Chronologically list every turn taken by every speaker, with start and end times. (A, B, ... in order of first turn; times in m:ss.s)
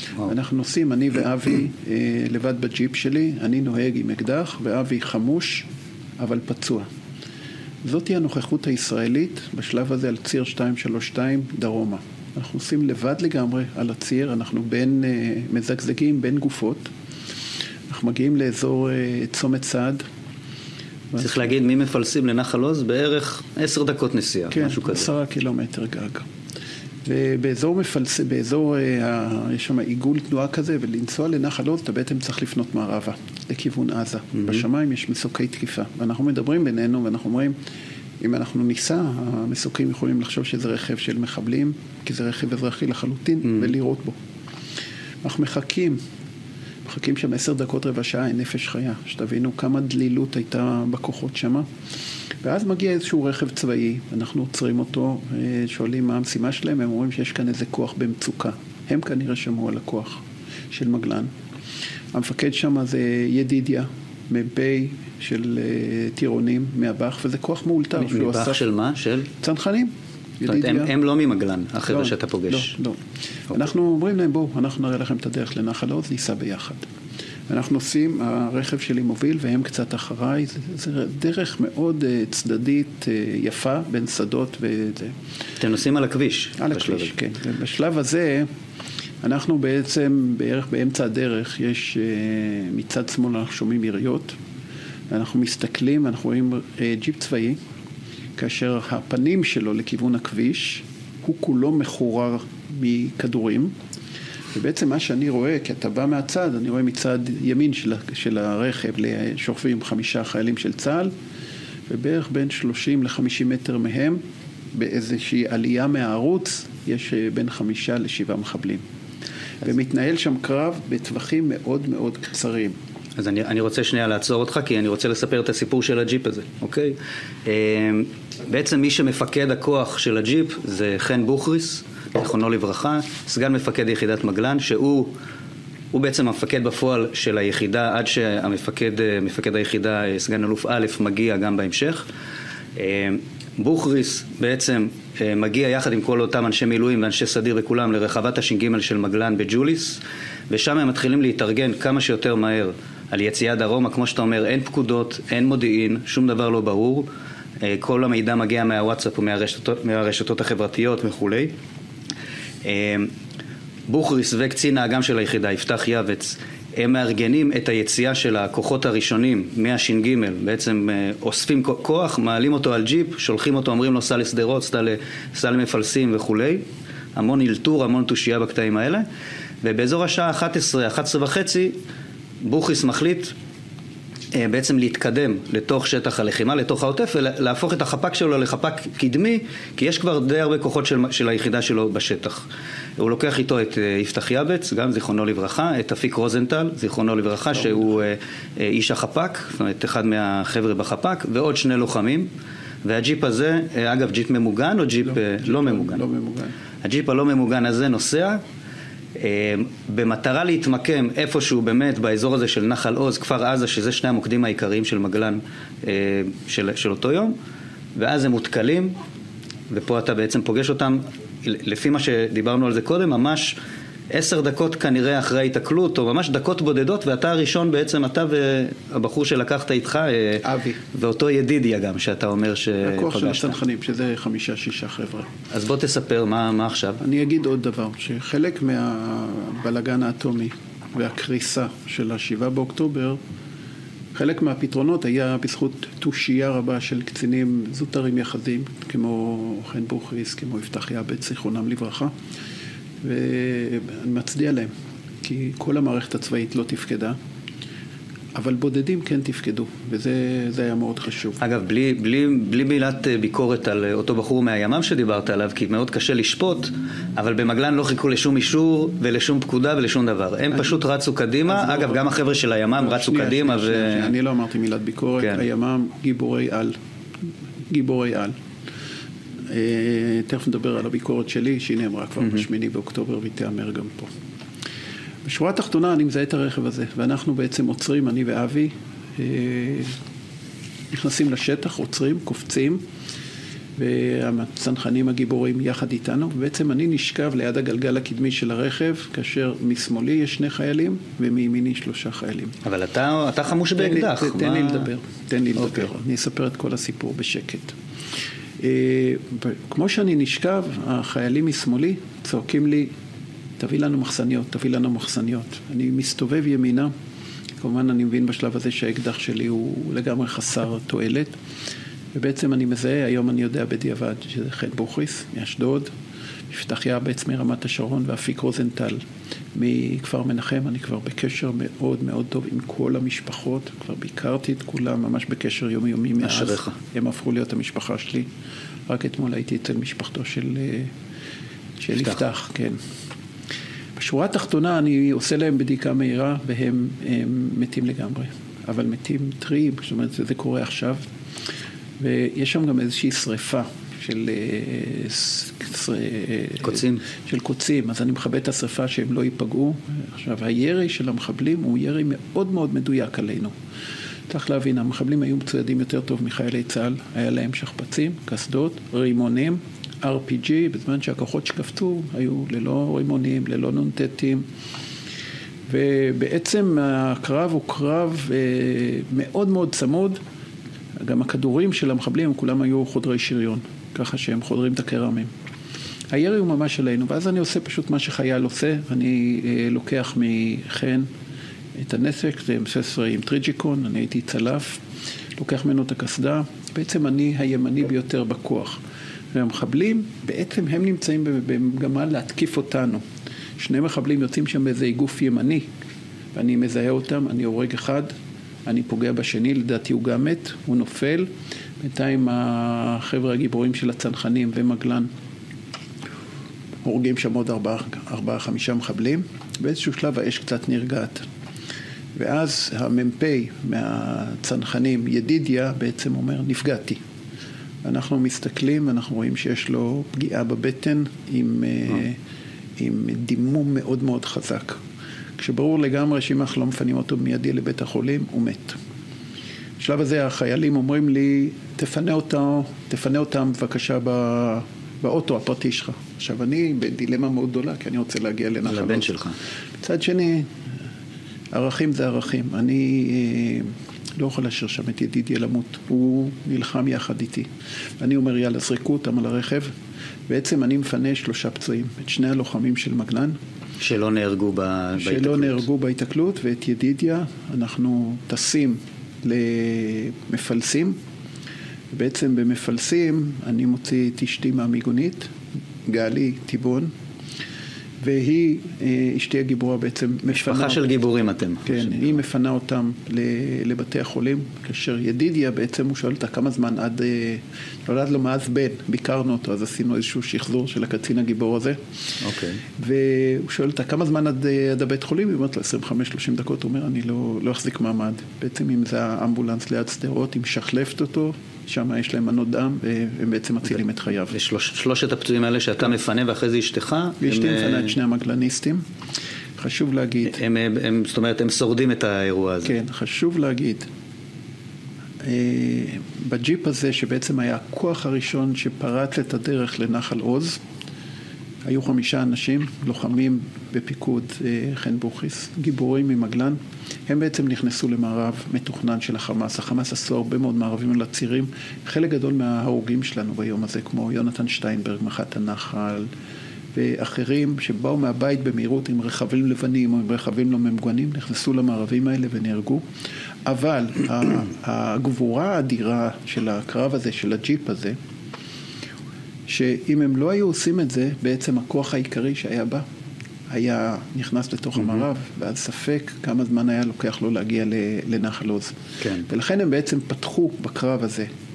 0:00.2-0:05.7 A
0:06.2-0:06.9 A
0:07.8-0:16.9 A
0:17.9-0:20.0 A
0:21.2-0:25.1 B
0:24.5-0:26.3 A
0:27.0-0:37.6 A
0:38.2-0:44.2 A
0:45.2-0:46.0 A
0:46.8-0:51.7 A
0:52.4-1:01.3 A
1:02.1-1:08.6 A
1:08.0-1:09.3 B
1:09.4-1:10.9 A
1:10.5-1:12.8 B
1:11.9-1:16.9 A
1:17.5-1:25.2 A
1:25.6-1:27.1 B
1:26.6-1:28.5 A
1:29.2-1:34.4 A
1:35.1-1:37.6 A
1:38.4-1:43.7 A
1:44.5-1:51.1 A
1:51.9-1:54.2 A
1:54.7-1:58.8 A
1:59.6-2:02.8 A
2:03.2-2:15.1 B
2:15.9-2:22.1 B
2:22.8-2:37.1 B
2:37.6-2:41.5 B
2:42.6-2:43.1 B
2:43.9-2:56.6 B
2:57.2-2:59.0 B
2:59.6-3:01.8 B
3:02.4-3:03.3 B
3:04.3-3:12.5 B
3:13.0-3:22.3 B
3:22.8-3:26.0 B
3:25.0-3:26.5 A
3:26.8-3:28.4 B
3:29.2-3:37.4 B
3:38.0-3:39.0 B
3:39.7-3:43.6 B
3:44.1-3:53.6 B
3:50.4-3:50.8 A
3:52.8-3:55.3 A
3:55.5-3:57.0 B
3:57.0-4:03.2 A
4:04.2-4:12.1 A
4:13.0-4:14.7 A
4:15.2-4:17.2 A
4:18.4-4:21.4 A
4:21.4-4:34.1 B
4:31.5-4:32.1 A
4:32.8-4:36.8 A
4:37.7-4:38.3 A
4:39.5-4:44.1 A
4:45.2-4:49.9 A
4:50.9-4:52.8 A
4:53.8-5:02.6 A
5:02.6-5:04.9 B
5:03.8-5:07.8 A
5:08.6-5:12.9 A
5:13.6-5:16.9 A
5:17.6-5:21.4 A
5:22.1-5:25.9 A
5:26.5-5:29.0 A
5:29.5-5:38.3 A
5:36.2-5:36.8 B
5:38.9-5:40.9 A
5:41.8-5:42.8 A
5:44.0-5:51.0 A
5:52.0-6:03.5 A
5:56.6-5:57.0 B
6:04.3-6:14.4 A
6:15.7-6:20.2 A
6:21.0-6:25.3 A
6:26.1-6:31.1 A
6:31.8-6:34.8 A
6:35.4-6:38.8 A
6:39.3-6:43.0 A
6:43.6-6:45.7 A
6:46.3-6:48.1 A
6:48.7-6:51.3 A
6:51.8-6:55.1 A
6:56.8-7:01.2 A
7:02.2-7:07.0 A
7:07.8-7:12.2 A
7:12.8-7:14.8 A
7:15.4-7:18.8 A
7:19.8-7:29.1 A
7:28.7-7:29.4 B
7:29.8-7:30.5 A
7:31.5-7:39.7 A
7:40.3-7:43.4 A
7:43.8-7:45.6 B
7:45.0-7:51.0 A
7:51.9-7:55.3 A
7:55.9-7:56.9 A
7:58.0-8:00.8 A
8:00.3-8:02.1 B
8:01.6-8:11.8 A
8:12.2-8:12.6 B
8:12.8-8:24.3 A
8:24.3-8:28.0 B
8:27.2-8:28.8 A
8:29.6-8:30.4 A
8:30.2-8:32.8 B
8:32.6-8:33.9 A
8:35.2-8:40.6 A
8:41.6-8:56.1 A
8:56.7-9:02.8 A
9:03.5-9:08.0 A
9:09.5-9:12.8 A
9:13.5-9:21.3 A
9:19.0-9:19.3 B